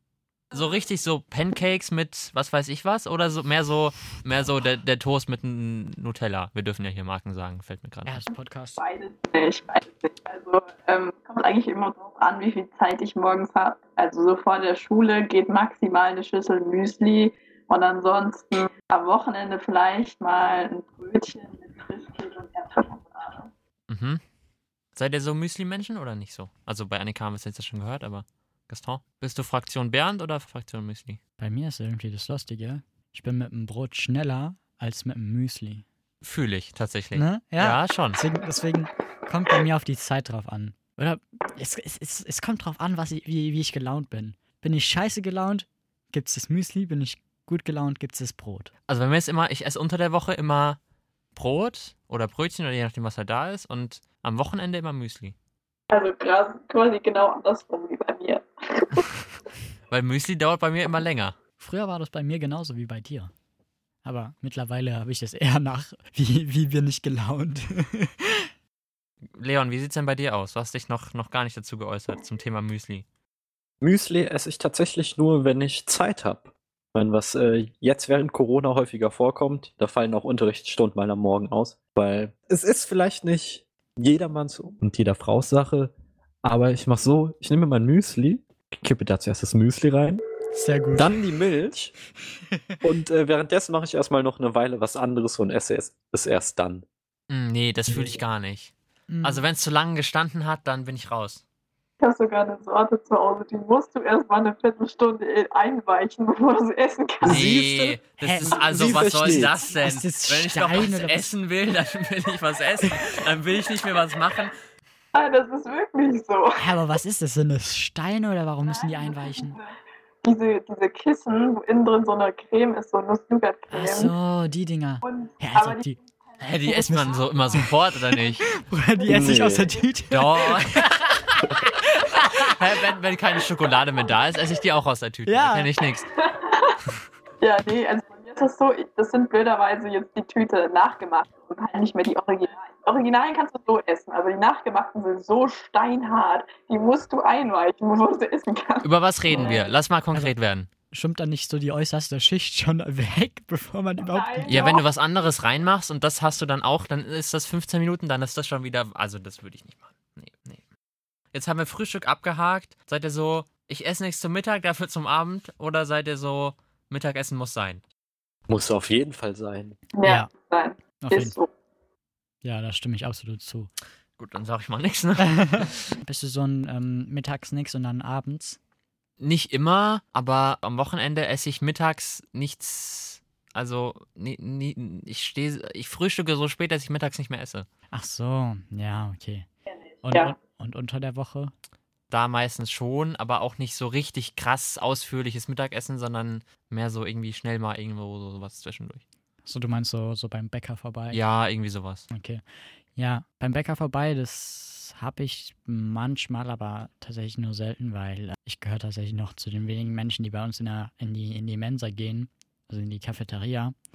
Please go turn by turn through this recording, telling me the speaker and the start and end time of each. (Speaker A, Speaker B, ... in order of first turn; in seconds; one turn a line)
Speaker A: 0.5-8.3
Speaker B: 8.0-8.8
Speaker C: 8.8-23.5
Speaker A: 23.9-24.2
Speaker A: 24.9-31.2
Speaker B: 31.4-35.8
Speaker A: 36.2-38.2
Speaker B: 37.1-48.7
Speaker A: 48.9-50.8
Speaker A: 51.4-55.3
Speaker C: 55.9-59.1
Speaker A: 59.9-61.3
Speaker B: 61.6-63.3
Speaker B: 64.0-68.4
Speaker A: 69.3-73.0
Speaker D: 73.8-85.9
Speaker D: 86.4-90.2
Speaker B: 90.5-91.2
Speaker D: 90.9-91.9
Speaker D: 92.8-96.8
Speaker A: 97.3-101.4
Speaker B: 99.1-99.4
Speaker C: 102.0-107.5
Speaker D: 107.2-109.5
Speaker A: 107.2-114.5
Speaker B: 108.2-108.7
Speaker B: 109.2-111.3
Speaker B: 112.8-113.1
Speaker C: 115.1-116.8
Speaker B: 116.6-119.6
Speaker C: 118.7-119.6
Speaker C: 120.2-124.1
Speaker B: 123.7-126.0
Speaker C: 125.0-126.0
Speaker A: 126.4-128.4
Speaker B: 126.6-127.7
Speaker C: 126.7-127.6
Speaker B: 128.2-132.5
Speaker D: 129.1-129.7
Speaker A: 130.1-130.9
Speaker A: 132.3-136.1
Speaker B: 135.2-135.7
Speaker C: 136.2-136.8
Speaker C: 137.4-149.7
Speaker A: 148.8-150.7
Speaker B: 150.9-154.7
Speaker C: 154.0-154.8
Speaker A: 154.5-160.6
Speaker A: 161.3-167.8
Speaker D: 168.5-169.8
Speaker C: 169.9-171.5
Speaker B: 171.0-171.3
Speaker B: 172.4-173.7
Speaker A: 174.2-175.8
Speaker B: 175.3-178.6
Speaker A: 179.2-187.7
Speaker B: 187.9-189.5
Speaker B: 190.0-191.5
Speaker A: 192.1-199.0
Speaker B: 199.4-201.2
Speaker A: 201.1-202.1
Speaker B: 202.1-202.4
Speaker B: 202.9-213.7